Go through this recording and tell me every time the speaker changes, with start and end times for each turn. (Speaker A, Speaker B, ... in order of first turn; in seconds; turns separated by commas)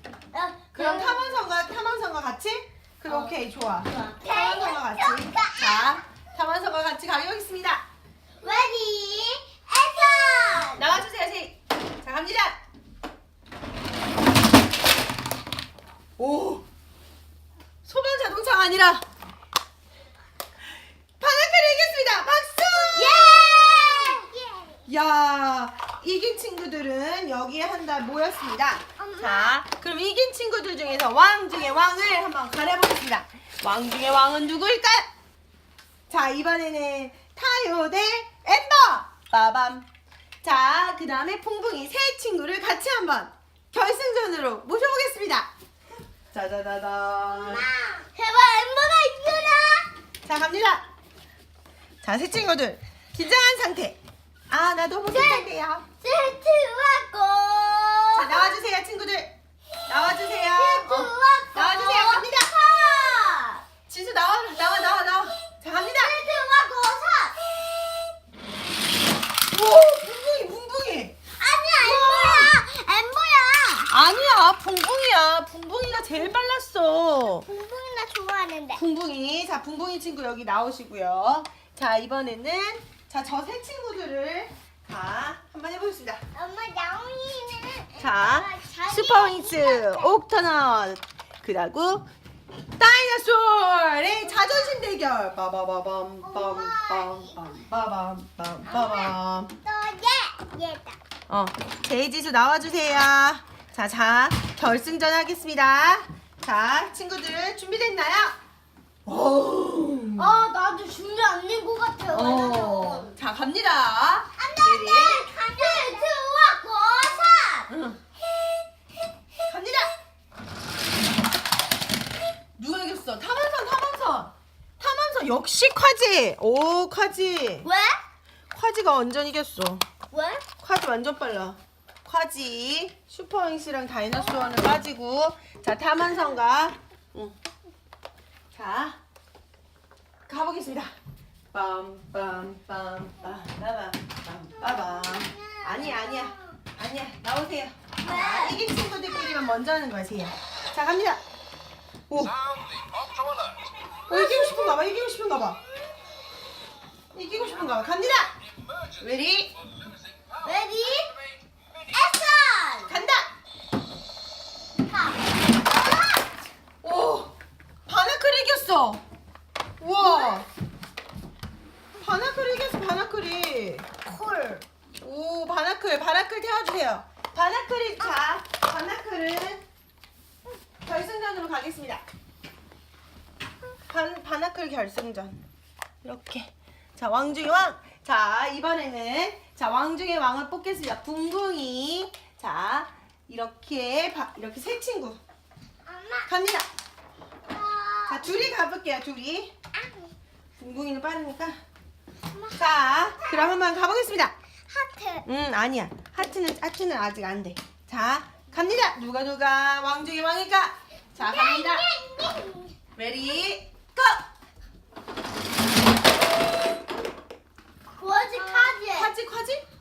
Speaker A: 0.3-1.4, Speaker B: 0.7-7.8, Speaker A: 3.1-5.8, Speaker A: 8.4-10.8, Speaker B: 10.8-12.6, Speaker B: 16.2-16.6, Speaker B: 17.8-19.0, Speaker B: 21.2-23.2, Speaker A: 22.9-24.8, Speaker B: 24.9-35.1, Speaker A: 29.0-29.5, Speaker B: 36.1-39.9, Speaker B: 40.4-45.5, Speaker B: 46.3-47.7, Speaker A: 47.3-49.9, Speaker B: 50.2-50.8, Speaker B: 52.0-55.8, Speaker A: 55.1-55.5, Speaker A: 56.0-58.6, Speaker B: 58.1-59.3, Speaker B: 59.9-62.5, Speaker A: 60.5-63.6, Speaker B: 63.9-66.1, Speaker A: 65.7-67.4, Speaker B: 69.5-71.1, Speaker A: 71.4-73.9, Speaker B: 71.8-72.5, Speaker B: 73.9-77.5, Speaker A: 77.3-78.8, Speaker B: 78.7-86.2, Speaker A: 86.3-90.1, Speaker B: 88.0-92.1, Speaker B: 92.8-99.5, Speaker A: 94.2-94.8, Speaker A: 96.2-97.6, Speaker A: 98.6-101.0, Speaker B: 101.3-108.3, Speaker B: 109.0-110.4, Speaker A: 110.2-113.2, Speaker B: 112.1-115.3, Speaker A: 114.4-117.7, Speaker B: 117.7-118.0, Speaker B: 119.5-119.9, Speaker B: 122.6-127.7, Speaker A: 127.6-128.0, Speaker B: 128.5-129.8, Speaker A: 130.1-130.4, Speaker B: 130.6-137.3, Speaker B: 138.5-139.0, Speaker B: 140.3-140.9, Speaker B: 141.5-151.2, Speaker A: 144.6-146.6, Speaker A: 148.0-148.6, Speaker B: 152.1-152.6, Speaker A: 154.1-154.8, Speaker B: 154.1-155.6, Speaker B: 157.1-158.3, Speaker B: 159.0-159.5, Speaker A: 160.4-161.2, Speaker A: 161.9-162.9, Speaker B: 162.9-163.2, Speaker A: 164.9-166.2, Speaker B: 166.8-167.3, Speaker B: 167.9-169.0, Speaker B: 169.8-170.5, Speaker A: 170.0-170.4, Speaker B: 172.0-173.8, Speaker A: 174.0-174.6, Speaker B: 175.0-179.6, Speaker B: 180.8-182.0, Speaker B: 183.9-185.4, Speaker B: 186.0-195.2, Speaker A: 195.8-196.3, Speaker B: 196.3-196.7, Speaker A: 197.5-198.4, Speaker B: 198.1-199.5, Speaker A: 199.7-200.1, Speaker B: 200.6-201.6, Speaker A: 202.3-203.8, Speaker B: 202.5-204.3, Speaker A: 204.7-205.2, Speaker B: 205.2-211.8, Speaker A: 211.2-212.7, Speaker B: 212.9-214.3, Speaker A: 217.8-219.1, Speaker B: 218.5-219.6